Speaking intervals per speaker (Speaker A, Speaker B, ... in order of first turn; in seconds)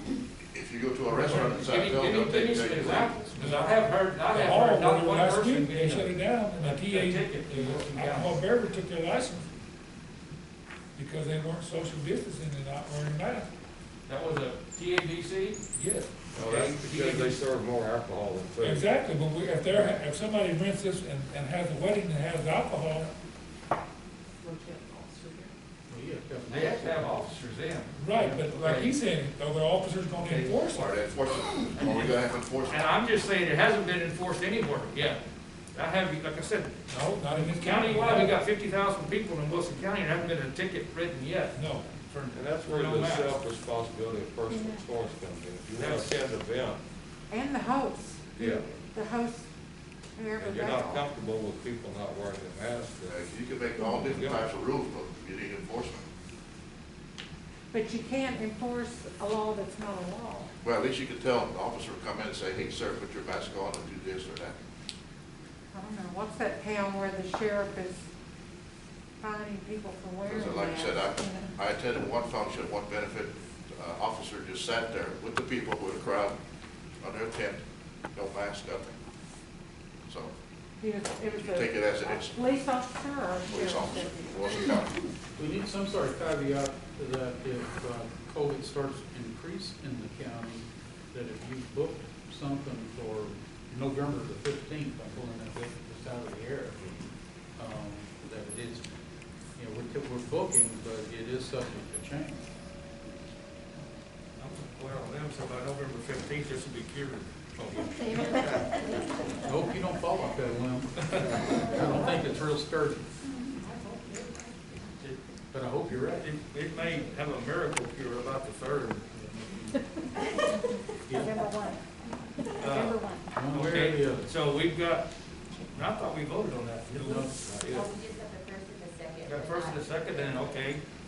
Speaker A: 0.5-3.2, 30.7-32.9, 53.1-56.0, 60.6-64.6, 70.2-76.3, 77.0-77.6, 78.1-79.0, 80.1-80.3, 81.4-82.4, 83.5-85.0
Speaker B: 1.2-8.3, 14.1-17.4, 26.5-28.9, 30.1-30.6, 31.8-35.2, 35.7-36.8, 37.3-43.4, 45.7-46.2, 104.4-107.3, 115.9-119.0, 122.6-125.1, 125.7-128.0, 129.2-130.8
Speaker C: 3.3-9.5, 10.9-13.5, 18.6-23.1, 28.0-30.9, 36.9-38.4, 41.5-41.9
Speaker D: 15.9-18.8, 24.5-25.5, 42.3-46.8, 48.4-48.6, 50.4-53.2
Speaker E: 25.9-27.2, 85.4-97.1, 97.6-98.8, 99.6-102.5, 109.4-113.3, 115.5-116.3, 119.1-119.9, 121.1-121.5, 123.3-124.3, 127.0-127.4
Speaker F: 47.3-49.5, 50.2-51.1, 57.7-60.5, 65.7-68.1, 69.2-71.5, 80.8-84.6, 121.2-121.8, 122.6-123.1
Speaker G: 107.9-109.0, 127.7-130.6